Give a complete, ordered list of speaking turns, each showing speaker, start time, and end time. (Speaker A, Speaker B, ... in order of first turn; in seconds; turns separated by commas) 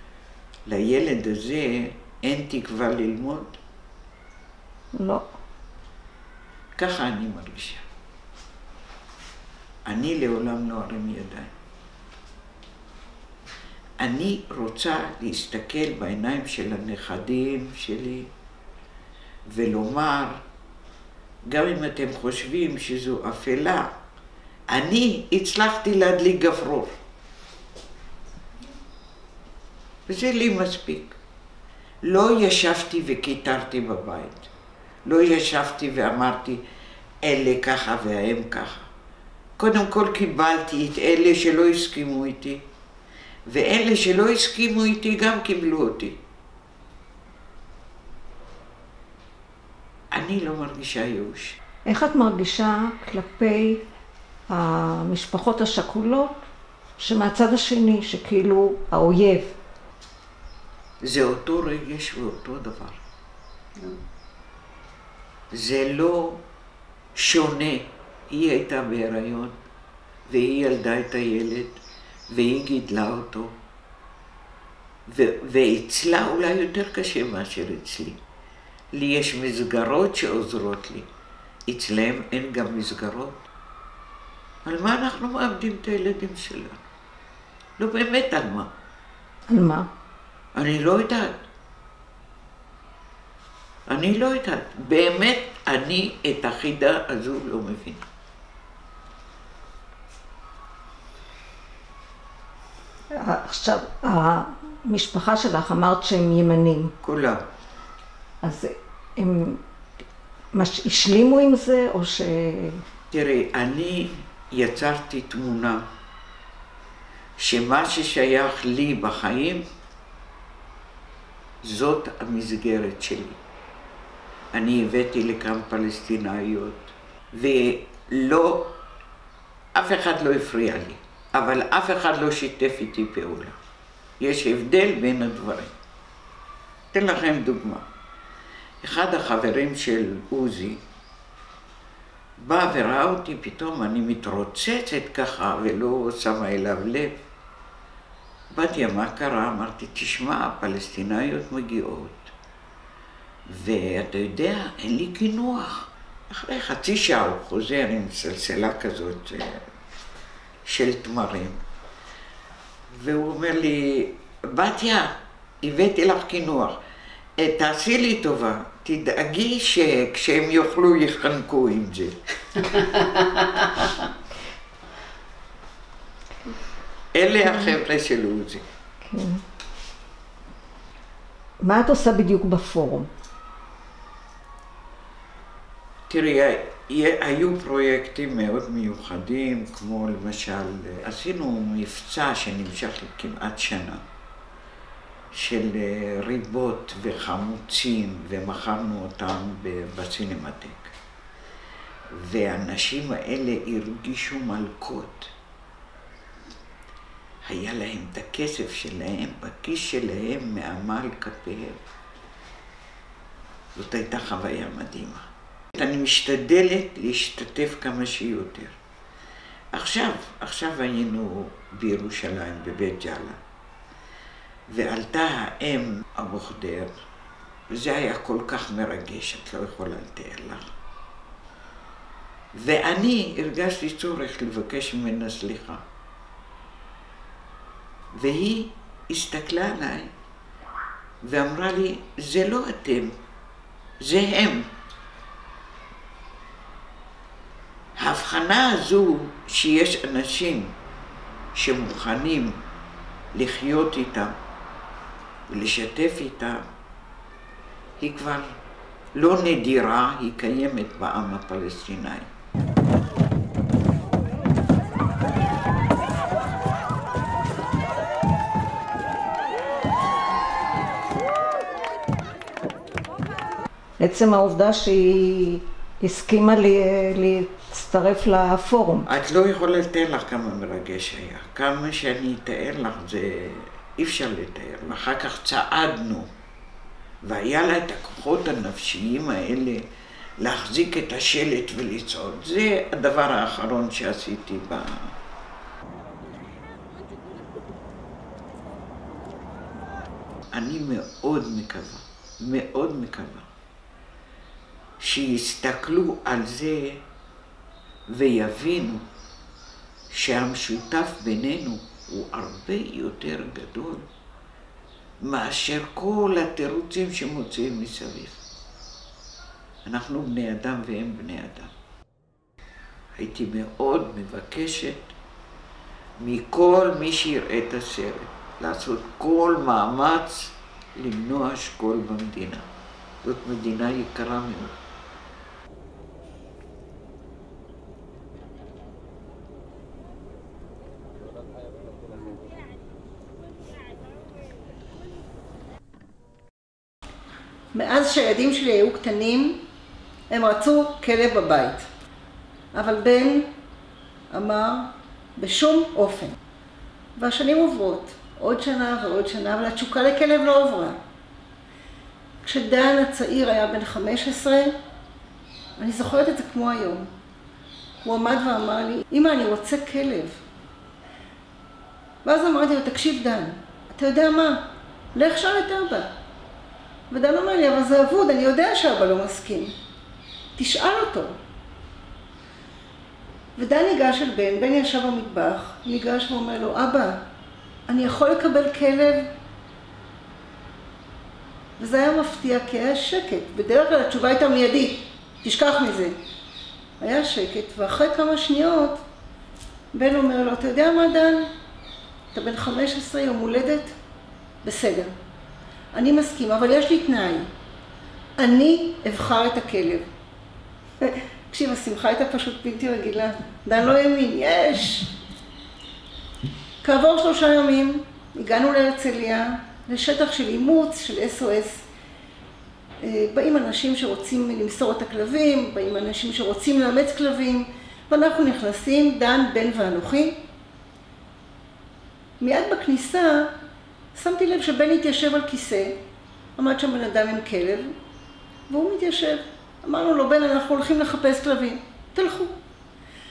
Speaker A: 0.7-3.6, Speaker B: 4.9-5.3, Speaker A: 6.8-7.8, Speaker A: 9.8-11.5, Speaker A: 14.0-18.3, Speaker A: 19.5-20.4, Speaker A: 21.5-23.9, Speaker A: 24.7-26.9, Speaker A: 30.1-31.1, Speaker A: 32.0-34.5, Speaker A: 35.0-36.6, Speaker A: 37.2-38.9, Speaker A: 39.6-42.6, Speaker A: 43.5-46.2, Speaker A: 50.1-51.6, Speaker B: 51.9-53.8, Speaker B: 54.5-56.4, Speaker B: 57.0-59.5, Speaker A: 61.0-63.0, Speaker A: 65.5-66.4, Speaker A: 67.1-69.5, Speaker A: 70.3-73.5, Speaker A: 75.1-78.2, Speaker A: 79.0-81.1, Speaker A: 81.7-83.4, Speaker A: 84.6-86.8, Speaker A: 87.8-88.7, Speaker B: 89.5-89.9, Speaker A: 90.5-91.4, Speaker A: 93.9-98.0, Speaker B: 103.2-106.9, Speaker A: 107.0-107.4, Speaker B: 108.4-109.6, Speaker B: 110.5-112.8, Speaker A: 113.1-115.8, Speaker A: 117.4-119.6, Speaker A: 121.6-123.4, Speaker A: 124.5-128.7, Speaker A: 129.7-133.6, Speaker A: 134.2-135.7, Speaker A: 136.9-137.8, Speaker A: 138.8-140.8, Speaker A: 142.4-147.2, Speaker A: 148.5-152.3, Speaker A: 153.5-159.6, Speaker A: 160.7-161.6, Speaker A: 162.9-166.8, Speaker A: 167.4-172.2, Speaker A: 177.1-178.6, Speaker B: 179.0-179.4, Speaker B: 181.6-183.1, Speaker A: 186.1-194.0, Speaker A: 195.3-200.9, Speaker A: 202.1-205.3, Speaker A: 207.4-211.8, Speaker A: 213.8-218.8, Speaker A: 219.7-223.4, Speaker A: 224.7-226.9, Speaker A: 227.7-230.7, Speaker A: 232.5-235.8, Speaker A: 238.1-240.1, Speaker A: 241.2-243.2, Speaker A: 244.0-244.7, Speaker A: 248.0-250.7, Speaker A: 251.5-252.6, Speaker A: 253.3-254.3, Speaker A: 255.5-256.6, Speaker A: 258.0-258.6, Speaker A: 259.1-262.3, Speaker B: 274.0-279.1, Speaker A: 279.0-286.3, Speaker A: 287.2-289.8, Speaker A: 290.4-295.1, Speaker A: 300.5-303.5, Speaker A: 305.0-307.0, Speaker A: 308.1-309.0, Speaker A: 310.1-314.1, Speaker A: 315.2-318.4, Speaker A: 319.8-321.7, Speaker A: 323.1-325.1, Speaker A: 326.2-332.6, Speaker A: 333.2-334.8, Speaker C: 347.7-349.6, Speaker C: 350.3-351.9, Speaker C: 352.7-353.5, Speaker C: 354.3-356.4, Speaker C: 357.2-361.0, Speaker C: 362.4-364.7, Speaker C: 365.8-367.1, Speaker C: 368.0-370.4, Speaker C: 372.2-376.1, Speaker C: 377.1-379.7, Speaker C: 380.6-381.3, Speaker C: 383.6-387.2, Speaker C: 387.9-389.3, Speaker C: 391.8-396.1, Speaker C: 397.0-399.0, Speaker C: 399.9-401.5, Speaker C: 402.3-403.9, Speaker C: 404.6-405.1, Speaker C: 405.9-407.5, Speaker C: 408.4-410.1, Speaker C: 411.0-415.1, Speaker C: 416.8-421.8, Speaker C: 423.0-430.4, Speaker C: 432.4-433.5, Speaker C: 434.1-436.0, Speaker C: 436.6-437.9, Speaker C: 438.7-442.5